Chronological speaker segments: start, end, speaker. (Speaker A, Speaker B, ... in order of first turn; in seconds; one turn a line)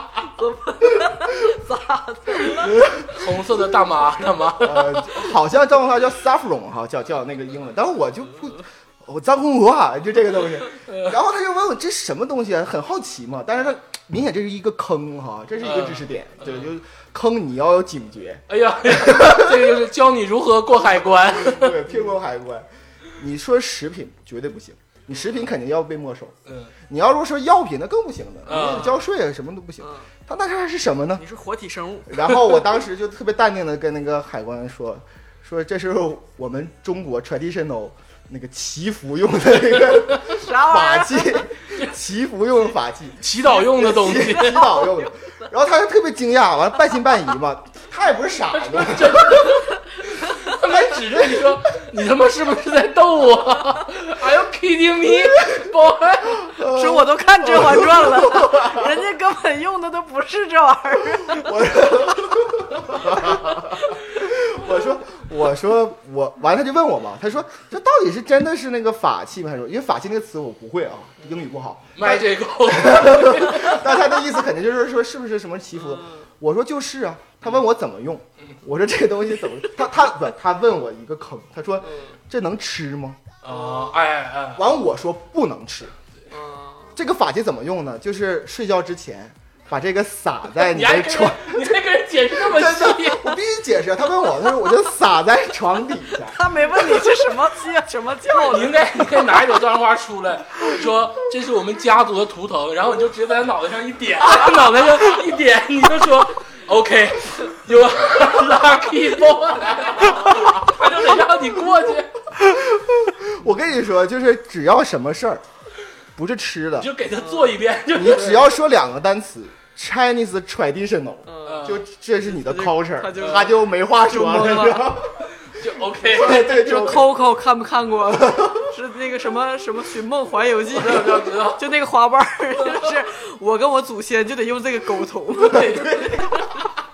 Speaker A: 0.3-2.7
Speaker B: 2.5-3.6
Speaker C: 3.0-5.3
Speaker B: 4.6-19.8
Speaker C: 10.8-11.1
Speaker C: 15.6-16.7
Speaker C: 18.5-21.8
Speaker B: 20.8-26.3
Speaker C: 26.4-26.7
Speaker B: 26.9-31.2
Speaker C: 28.4-29.0
Speaker A: 29.8-30.1
Speaker A: 31.2-32.4
Speaker B: 32.1-49.6
Speaker A: 40.3-41.4
Speaker C: 43.2-44.8
Speaker A: 44.3-45.4
Speaker C: 48.5-56.5
Speaker B: 50.7-51.6
Speaker B: 56.5-58.9
Speaker A: 56.7-61.5
Speaker B: 61.3-83.2
Speaker C: 72.0-74.0
Speaker A: 75.8-76.3
Speaker A: 81.8-82.1
Speaker C: 83.4-84.7
Speaker A: 83.5-83.9
Speaker B: 84.5-85.9
Speaker A: 86.3-87.0
Speaker B: 87.0-91.8
Speaker C: 90.6-93.4
Speaker B: 92.3-96.4
Speaker A: 96.1-99.2
Speaker C: 98.4-112.2
Speaker B: 112.3-115.4
Speaker B: 116.2-116.9
Speaker C: 116.8-118.6
Speaker A: 117.2-117.5
Speaker B: 117.9-125.3
Speaker A: 121.2-125.0
Speaker C: 121.4-121.8
Speaker C: 123.2-123.5
Speaker C: 125.4-126.9
Speaker B: 126.1-127.2
Speaker A: 126.2-136.1
Speaker B: 128.1-128.7
Speaker C: 130.7-131.7
Speaker C: 135.4-136.5